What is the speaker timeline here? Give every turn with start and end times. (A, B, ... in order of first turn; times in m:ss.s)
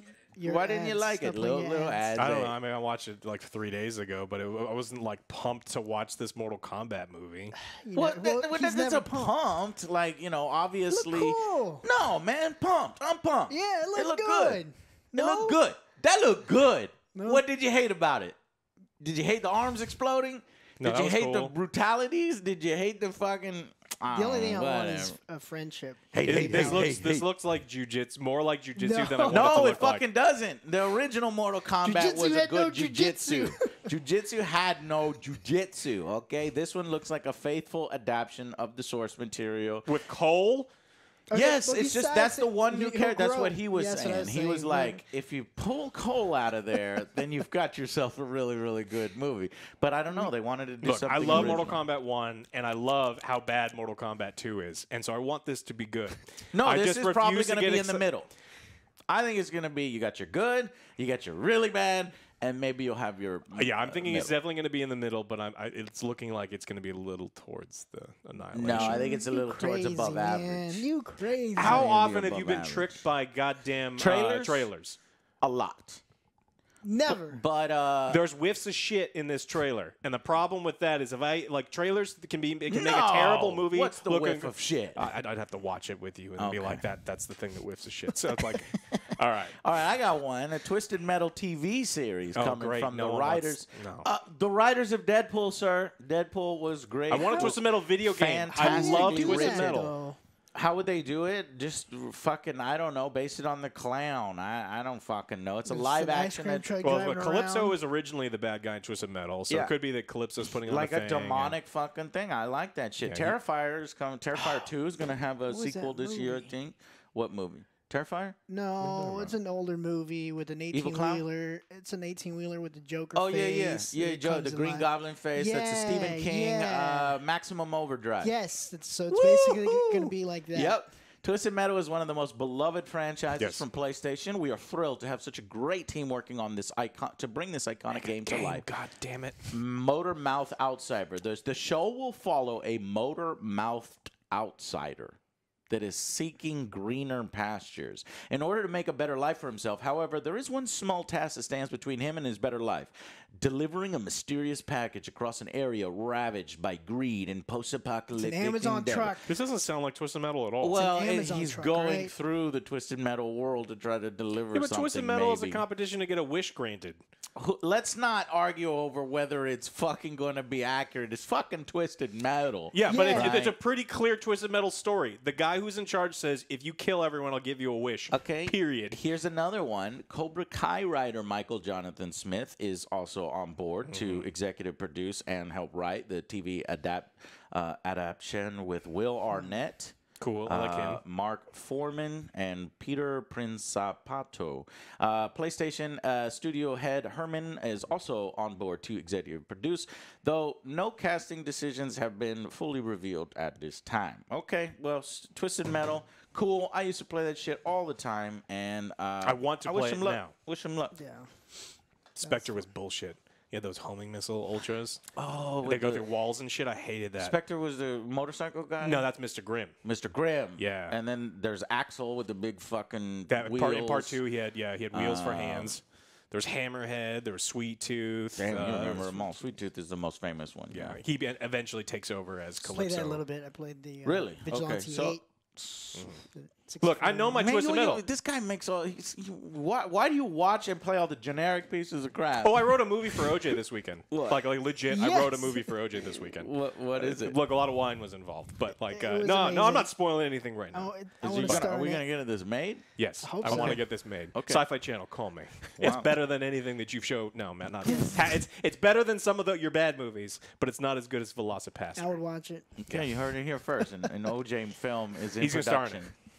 0:00.3-0:02.0 A
0:00.4-0:02.6 B
0:02.2-0:07.6 C
0:07.7-0:09.4 A
0:07.9-0:18.4 B
0:10.9-0:11.8 A
0:13.5-0:15.6 A
0:17.1-0:17.4 A
0:19.0-0:25.2 B
0:20.8-0:21.5 C
0:24.1-0:26.8 A
0:26.1-0:27.3 B
0:26.2-0:30.0 C
0:28.8-0:29.6 A
0:29.2-0:39.9 B
0:31.8-0:33.8 A
0:39.8-0:40.7 C
0:41.3-0:45.0 A
0:41.3-0:51.8 B
0:50.8-0:58.1 C
0:51.2-0:51.5 A
0:56.5-0:58.3 B
0:59.1-1:04.3 B
1:03.5-1:09.0 C
1:08.5-1:10.9 B
1:08.7-1:11.9 A
1:11.6-1:13.0 B
1:11.6-1:15.0 C
1:14.0-1:14.7 B
1:15.4-1:16.0 B
1:16.8-1:17.4 A
1:17.1-1:18.2 B
1:18.1-1:29.6 C
1:22.7-1:25.0 B
1:26.4-1:26.8 B
1:29.6-1:39.9 B
1:32.4-1:34.1 C
1:37.1-1:39.9 C
1:37.2-1:37.5 A
1:38.6-1:40.2 A
1:40.5-1:47.0 B
1:45.6-1:47.8 A
1:46.8-1:51.6 C
1:50.6-1:58.4 B
1:53.0-1:53.4 C
1:55.5-1:56.5 A
1:58.5-2:07.2 A
1:58.8-1:59.2 C
1:58.9-1:59.3 B
2:00.7-2:01.2 B
2:03.1-2:08.3 B
2:08.2-2:10.8 A
2:09.1-2:18.7 B
2:13.4-2:13.6 C
2:17.9-2:19.5 C
2:19.5-2:25.2 B
2:25.7-2:39.2 B
2:38.1-2:39.3 A
2:39.2-2:40.8 C
2:40.6-2:45.6 B
2:40.7-2:42.1 A
2:44.5-2:47.0 C
2:47.4-2:53.6 B
2:52.7-2:59.0 C
2:52.8-2:53.4 A
2:58.1-3:31.0 B
3:03.9-3:04.3 C
3:10.2-3:11.0 C
3:29.2-3:30.3 C
3:30.9-3:31.3 A
3:32.1-3:35.0 C
3:32.2-3:32.6 A
3:35.2-3:36.0 B
3:35.6-3:37.4 C
3:37.2-3:39.1 B
3:38.8-3:39.8 C
3:39.8-3:44.2 B
3:40.6-3:41.0 C
3:43.3-3:49.3 C
3:44.9-3:45.7 B
3:48.4-3:51.0 B
3:50.7-3:53.2 C
3:52.6-3:55.2 A
3:54.0-3:56.1 B
3:55.9-3:56.2 C
3:56.3-3:57.4 A
3:56.8-3:58.0 C
3:57.3-4:03.5 B
4:02.4-4:11.7 C
4:04.1-4:04.5 B
4:04.9-4:05.7 A
4:06.3-4:07.4 B
4:08.9-4:09.9 A
4:10.7-4:12.0 A
4:11.2-4:12.8 B
4:13.0-4:22.2 C
4:13.2-4:13.8 A
4:13.4-4:14.6 B
4:15.8-4:16.1 B
4:17.8-4:18.2 A
4:17.8-4:18.2 B
4:22.0-4:22.7 A
4:22.8-4:26.1 B
4:22.8-4:23.3 C
4:25.4-4:26.2 C